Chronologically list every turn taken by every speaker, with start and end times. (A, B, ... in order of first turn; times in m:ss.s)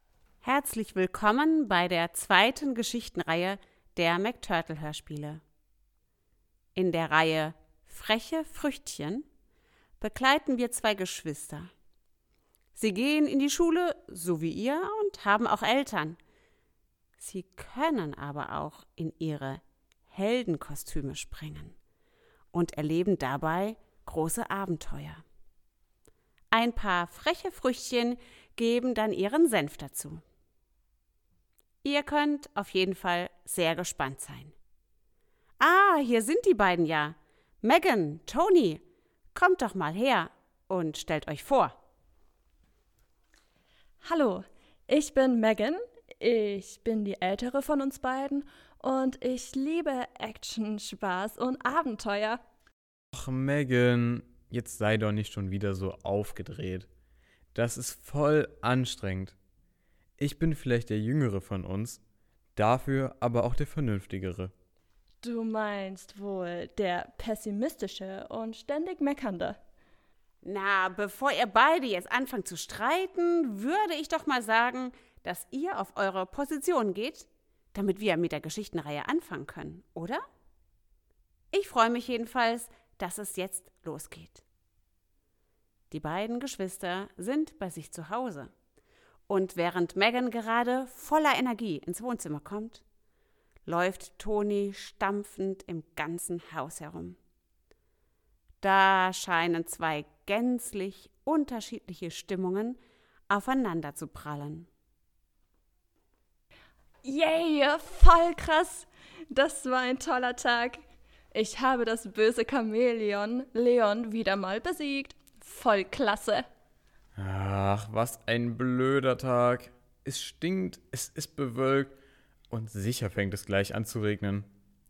0:00.4-0:05.4 A
0:06.8-0:09.3 A
0:10.0-0:11.7 A
0:12.8-0:16.2 A
0:17.2-0:21.8 A
0:22.5-0:25.2 A
0:26.5-0:30.2 A
0:31.8-0:34.5 A
0:35.6-0:38.8 A
0:39.4-0:41.8 A
0:44.0-0:52.4 B
0:53.1-0:56.9 C
0:57.5-0:59.4 C
1:00.2-1:02.0 C
1:02.6-1:04.5 C
1:05.2-1:09.6 B
1:10.4-1:20.2 A
1:21.5-1:24.4 A
1:25.9-1:28.5 A
1:29.3-1:32.8 A
1:33.7-1:37.2 A
1:38.6-1:44.7 A
1:47.0-1:56.4 B
1:57.2-2:02.0 C
2:02.5-2:04.5 C